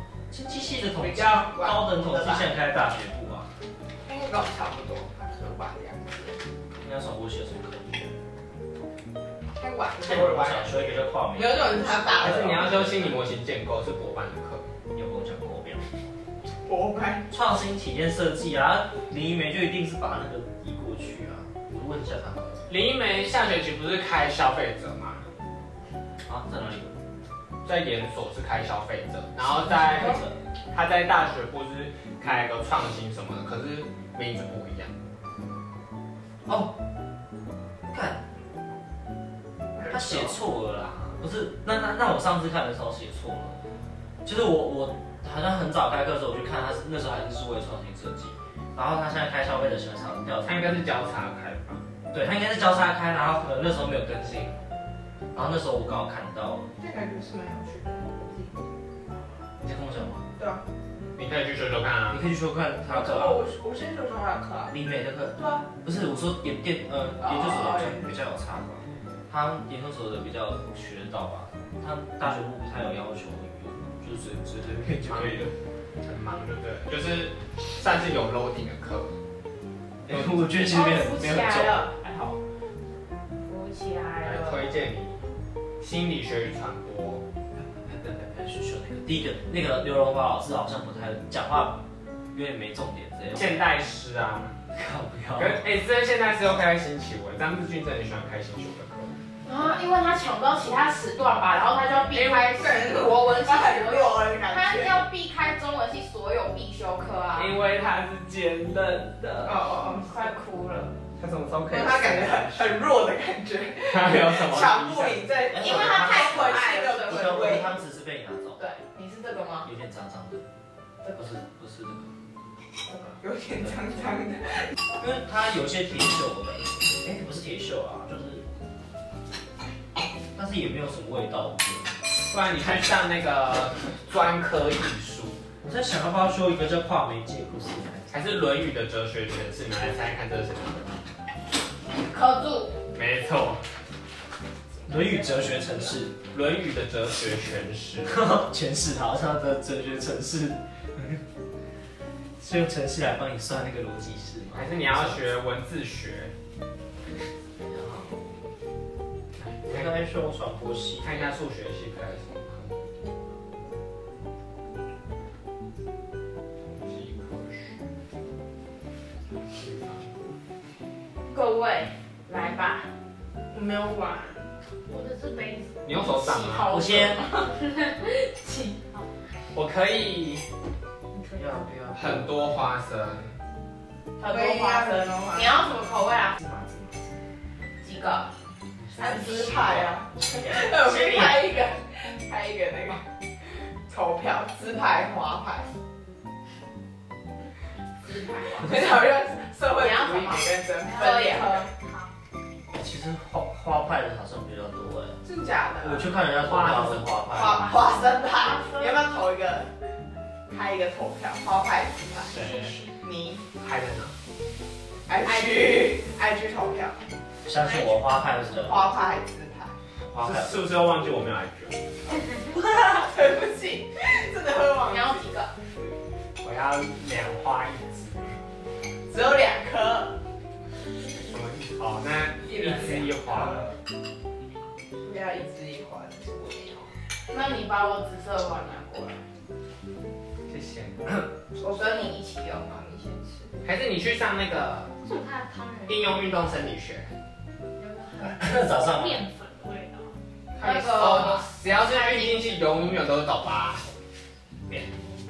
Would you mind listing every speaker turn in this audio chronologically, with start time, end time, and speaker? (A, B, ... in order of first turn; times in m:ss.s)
0:00.3-0:03.5 A
0:01.0-0:02.5 B
0:04.0-0:06.3 B
0:06.8-0:08.1 A
0:09.6-0:10.7 B
0:10.0-0:13.2 A
0:10.1-0:10.7 C
0:11.3-0:12.6 B
0:12.2-0:14.6 C
0:14.9-0:15.8 A
0:16.6-0:17.2 B
0:17.3-0:22.7 A
0:22.7-0:25.2 C
0:26.2-0:26.9 A
0:27.6-0:30.2 C
0:29.4-0:30.4 A
0:30.7-0:34.9 C
0:36.4-0:36.7 A
0:37.9-0:38.2 A
0:39.8-0:40.3 B
0:39.8-0:43.6 A
0:44.2-0:50.8 A
0:50.4-0:51.8 C
0:52.1-0:54.6 A
0:55.3-0:56.7 A
0:56.8-0:58.6 B
0:59.6-1:00.2 A
1:00.4-1:00.6 B
1:01.2-1:02.2 C
1:02.1-1:03.4 A
1:02.9-1:04.8 B
1:04.7-1:15.5 A
1:05.3-1:05.7 B
1:07.3-1:08.0 B
1:14.7-1:15.5 C
1:16.0-1:19.1 C
1:20.0-1:22.3 A
1:20.6-1:21.9 D
1:23.4-1:24.8 D
1:24.2-1:25.2 C
1:25.8-1:27.2 C
1:27.6-1:31.8 A
1:32.3-1:33.6 A
1:33.4-1:34.5 C
1:34.7-1:35.7 A
1:35.3-1:39.1 C
1:39.4-1:47.6 D
1:42.1-1:42.6 C
1:42.5-1:45.0 B
1:47.3-1:49.6 C
1:49.4-1:50.1 B
1:49.6-1:50.9 D
1:51.2-1:52.8 C
1:51.6-1:57.7 B
1:53.8-1:55.4 C
1:55.5-1:58.6 A
1:55.5-1:57.6 D
1:58.6-1:59.7 D
1:59.6-2:00.4 A
2:01.0-2:01.4 D
2:01.1-2:02.1 A
2:03.2-2:04.7 B
2:05.0-2:08.4 A
2:10.3-2:12.0 A
2:12.3-2:15.4 C
2:15.6-2:18.1 A
2:18.1-2:20.9 C
2:21.9-2:22.7 D
2:22.9-2:23.6 C
2:24.7-2:26.0 B
2:24.9-2:26.2 A
2:26.2-2:28.2 C
2:28.0-2:31.2 A
2:32.4-2:35.3 A
2:34.5-2:36.3 C
2:37.6-2:38.4 A
2:39.4-2:40.0 C
2:39.7-2:41.4 A
2:41.0-2:42.8 C
2:46.6-2:47.8 C
2:49.5-2:50.1 C
2:51.3-2:52.9 D
2:53.5-2:54.4 B
2:54.9-2:55.7 E
2:55.8-2:56.8 C
2:55.9-2:57.5 D
2:56.7-2:57.2 A
2:57.5-2:59.0 E
2:59.5-3:00.4 C
3:01.1-3:01.4 E
3:01.3-3:02.5 A
3:02.0-3:03.4 C
3:04.2-3:06.4 D
3:04.2-3:05.6 B
3:06.4-3:07.1 A
3:07.8-3:08.3 D
3:08.8-3:11.6 A
3:09.0-3:13.0 B
3:13.9-3:15.7 B
3:18.0-3:19.1 D
3:18.6-3:21.7 B
3:19.7-3:21.7 D
3:20.8-3:22.1 E
3:22.7-3:25.2 A
3:25.2-3:26.1 B
3:25.8-3:27.8 A
3:26.4-3:27.6 C
3:27.3-3:29.7 B
3:28.2-3:28.9 D
3:30.5-3:32.4 B
3:32.3-3:32.8 C
3:32.3-3:32.9 E
3:33.0-3:33.4 B
3:33.5-3:34.1 C
3:35.1-3:37.0 B
3:35.2-3:35.8 D
3:37.4-3:38.9 A
3:37.6-3:38.2 E
3:38.6-3:39.8 B
3:40.1-3:40.6 A
3:40.2-3:41.8 C
3:42.4-3:45.3 B
3:44.9-3:45.5 D
3:46.4-3:48.4 C
3:49.1-3:50.2 B
3:51.2-3:53.8 C
3:52.4-3:53.6 B
3:55.0-3:56.9 B
3:57.3-3:59.2 D
4:00.5-4:01.3 C
4:01.6-4:03.6 B
4:01.6-4:02.7 D
4:03.6-4:04.9 C
4:05.0-4:06.6 E
4:05.8-4:07.1 C
4:07.8-4:10.1 E
4:08.2-4:09.2 A
4:10.6-4:13.8 C
4:10.6-4:12.6 D